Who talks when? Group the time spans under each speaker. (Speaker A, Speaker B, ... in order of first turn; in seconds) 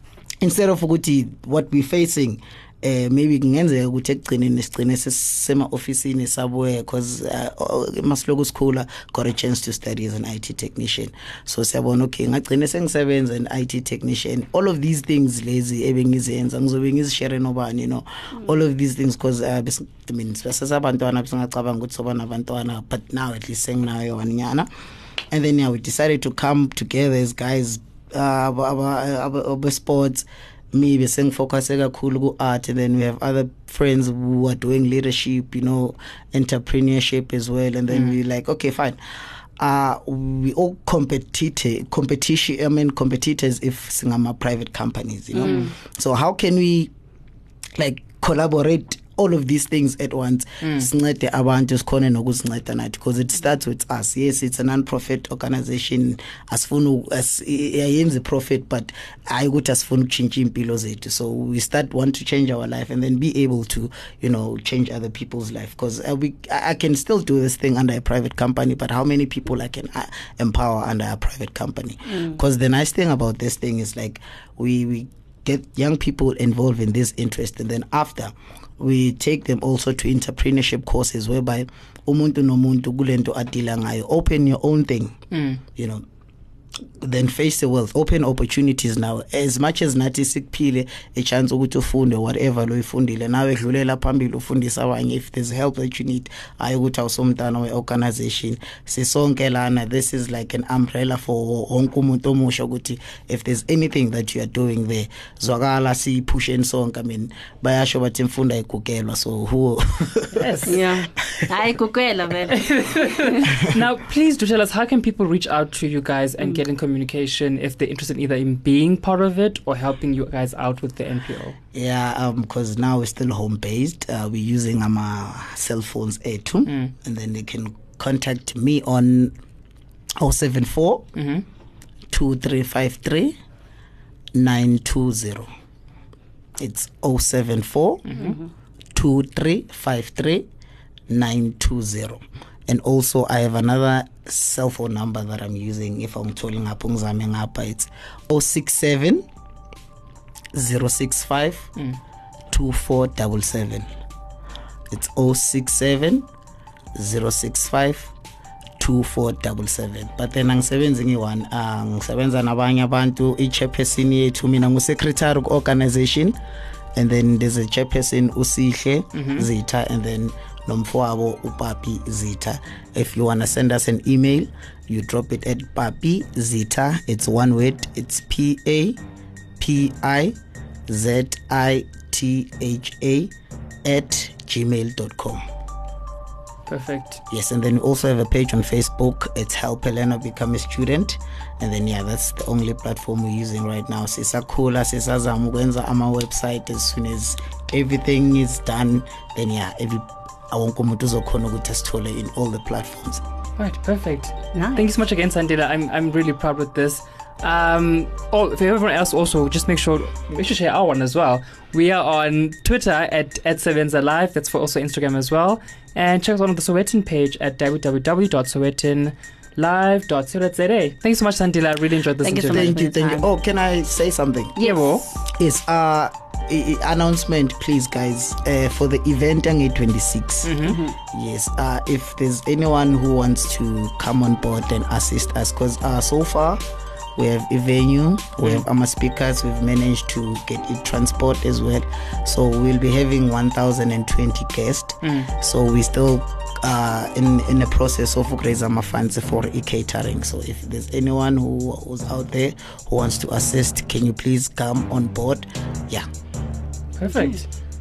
Speaker A: 0.4-24.7, 25.3-39.0, 39.6-46.9, 47.8-86.0, 87.0-110.7, 121.7-129.3, 130.2-131.1, 132.1-133.4, 134.3-135.5, 136.6-138.1, 138.9-140.5, 141.1-149.3, 150.5-151.7, 152.5-153.9, 154.9-156.3, 156.9-158.1, 158.8-166.4, 167.0-179.0, 179.6-180.4, 180.9-183.3, 183.8-185.4, 187.3-203.2, 222.5-224.6, 225.3-236.6, 237.2-256.1
Speaker B: 85.3-85.6, 110.4-110.8, 112.5-121.6, 126.7-126.9, 131.2-131.4, 138.1-138.4, 169.1-169.5, 186.7-187.2, 203.6-222.8, 224.6-225.0, 230.4-230.8, 245.0-245.3, 257.0-257.5
Speaker C: 110.7-113.4, 204.5-204.8, 222.2-223.3, 224.6-225.0, 230.6-231.0